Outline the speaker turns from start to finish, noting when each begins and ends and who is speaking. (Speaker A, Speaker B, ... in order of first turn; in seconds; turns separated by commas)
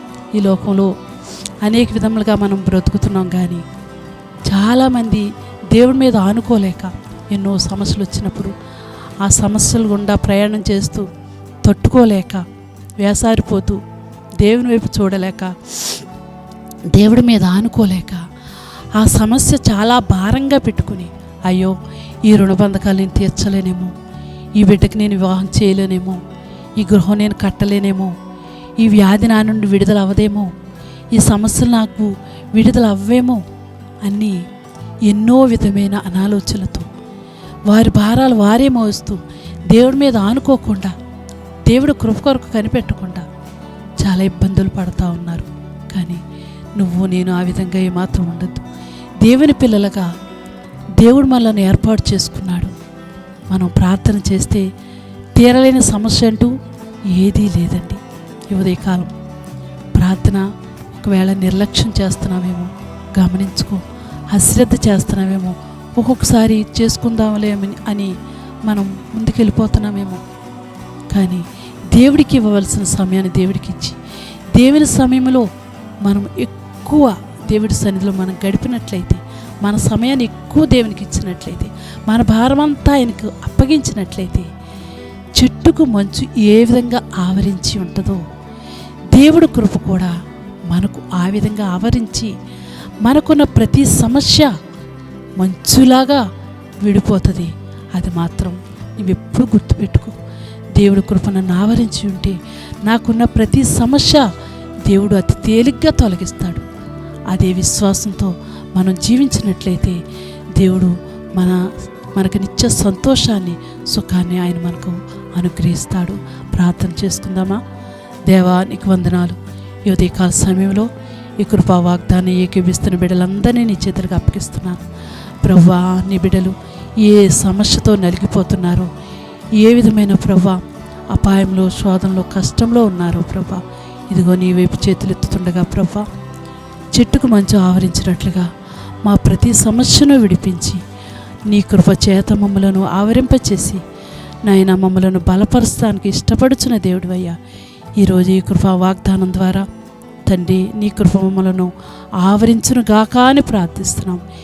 Speaker A: 0.3-0.9, Speaker A: 1.6-3.6, Speaker A: 4.5-8.5, Speaker A: 9.2-11.1, Speaker A: 11.6-12.4, Speaker A: 13.0-13.8, Speaker A: 14.4-16.0, Speaker A: 16.9-18.2, Speaker A: 19.0-23.9, Speaker A: 24.6-26.2, Speaker A: 26.8-28.1, Speaker A: 28.8-30.5, Speaker A: 31.1-33.4, Speaker A: 34.0-34.4, Speaker A: 35.1-36.9, Speaker A: 37.7-40.9, Speaker A: 41.7-43.3, Speaker A: 44.0-46.2, Speaker A: 46.8-48.7, Speaker A: 49.2-50.1, Speaker A: 51.0-52.7, Speaker A: 53.5-54.7, Speaker A: 55.4-56.5, Speaker A: 57.1-59.1, Speaker A: 60.0-60.4, Speaker A: 61.0-68.1, Speaker A: 68.7-70.2, Speaker A: 71.1-74.0, Speaker A: 74.5-75.5, Speaker A: 76.0-84.5, Speaker A: 85.4-88.2, Speaker A: 89.1-90.1, Speaker A: 90.7-92.3, Speaker A: 93.0-94.5, Speaker A: 95.4-96.2, Speaker A: 96.8-100.2, Speaker A: 100.8-104.3, Speaker A: 104.9-106.7, Speaker A: 107.3-110.0, Speaker A: 110.6-117.6, Speaker A: 118.3-124.8, Speaker A: 125.4-128.9, Speaker A: 129.6-130.6, Speaker A: 131.1-136.1, Speaker A: 136.9-138.5, Speaker A: 139.0-140.8, Speaker A: 141.5-143.8, Speaker A: 144.5-147.4, Speaker A: 148.0-149.7, Speaker A: 150.3-154.2